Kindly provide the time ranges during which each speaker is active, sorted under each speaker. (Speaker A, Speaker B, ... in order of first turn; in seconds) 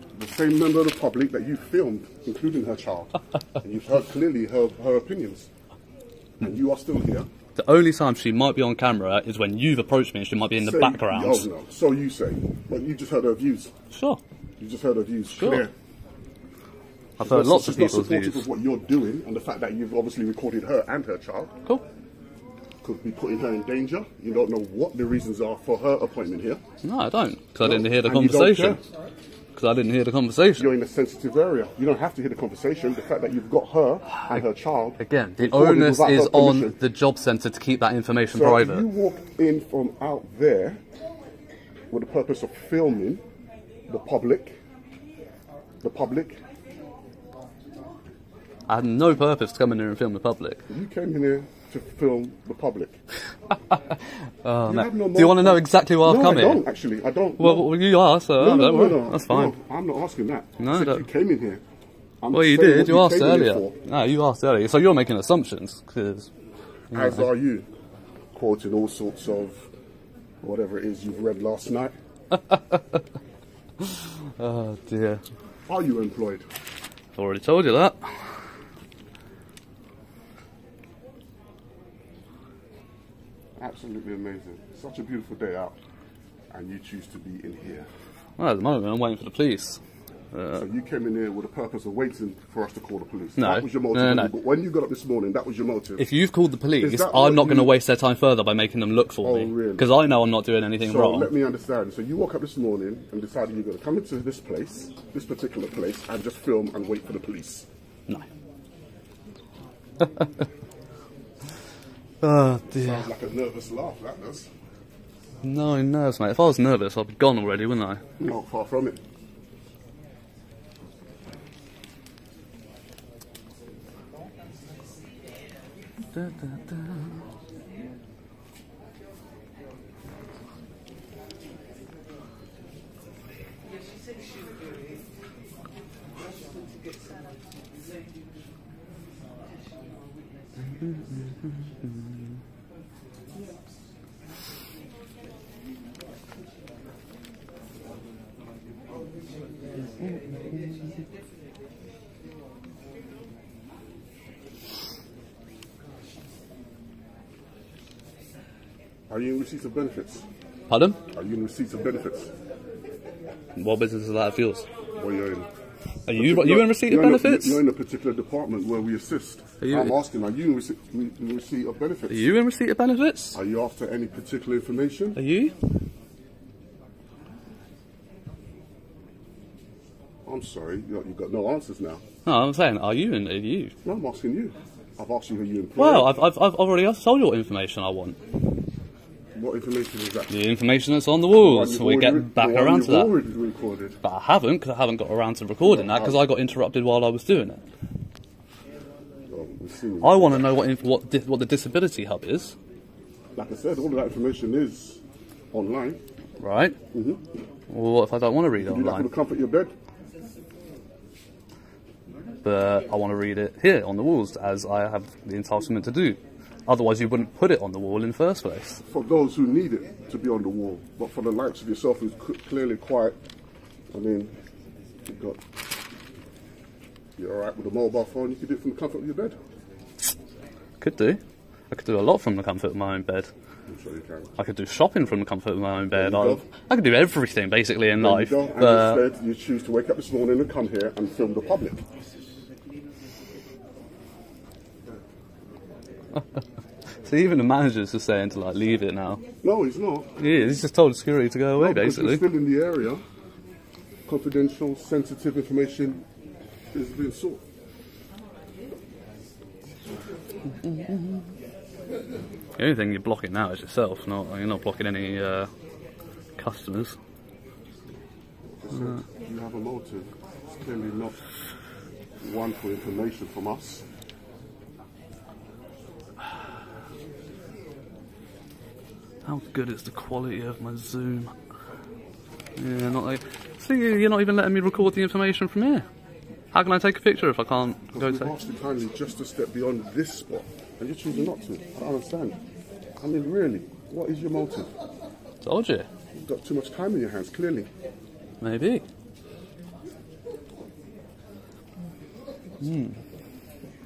Speaker A: 0.1-5.5, 6.4-7.3, 10.6-13.7, 14.6-15.7, 17.2-21.5, 22.8-26.6, 27.6-28.8, 30.6-36.7, 38.3-40.8, 41.9-43.2, 43.9-44.6, 45.8-46.4, 50.7-53.0, 54.7-57.7, 58.4-61.6, 62.2-63.8, 66.9-67.7, 68.3-69.7, 70.4-71.9, 75.7-76.4, 83.6-85.8, 86.5-87.9, 90.5-96.0, 96.8-97.7, 99.2-99.9, 100.8-107.7, 112.7-114.5, 118.2-119.0, 159.1-160.2, 161.1-162.3, 165.0-165.5, 166.1-172.3, 173.3-175.2, 180.2-182.0, 183.8-186.2, 189.3-190.3, 191.3-194.0, 195.6-196.2, 199.3-200.6, 203.4-205.0, 205.5-206.0, 206.9-207.2, 208.6-209.7, 218.9-223.2, 223.9-224.3, 225.0-225.4, 227.2-229.4, 233.7-234.3, 235.9-236.4, 238.0-241.8, 249.4-250.2, 251.6-253.0, 254.1-256.0, 256.7-257.4, 268.6-271.2, 272.2-273.8, 287.9-292.4, 293.0-294.7, 296.1-297.7
Speaker B: 7.6-11.5, 13.9-14.2, 15.4-15.7, 17.2-18.4, 26.8-28.8, 29.6-30.7, 35.0-38.9, 48.7-50.6, 53.7-56.6, 57.4-59.5, 60.6-61.0, 62.3-66.3, 66.9-67.2, 72.3-73.0, 74.4-75.2, 77.2-78.1, 88.4-89.8, 90.3-90.7, 93.4-94.3, 96.0-101.3, 112.2-113.1, 115.4-118.0, 126.1-127.2, 140.8-142.4, 150.0-150.8, 160.7-161.0, 163.6-164.7, 166.1-167.6, 169.6-169.9, 172.1-173.4, 175.2-175.5, 182.3-183.7, 185.8-188.2, 190.3-193.2, 194.0-197.6, 200.0-202.5, 206.4-206.8, 207.7-209.1, 212.4-218.8, 230.8-231.2, 231.7-233.3, 234.4-239.1, 247.1-249.2, 250.2-252.2, 260.6-261.2, 262.6-265.5, 266.4-267.0, 279.3-281.3, 282.6-285.9, 286.5-288.3, 295.4-295.9, 298.4-298.8, 302.6-303.0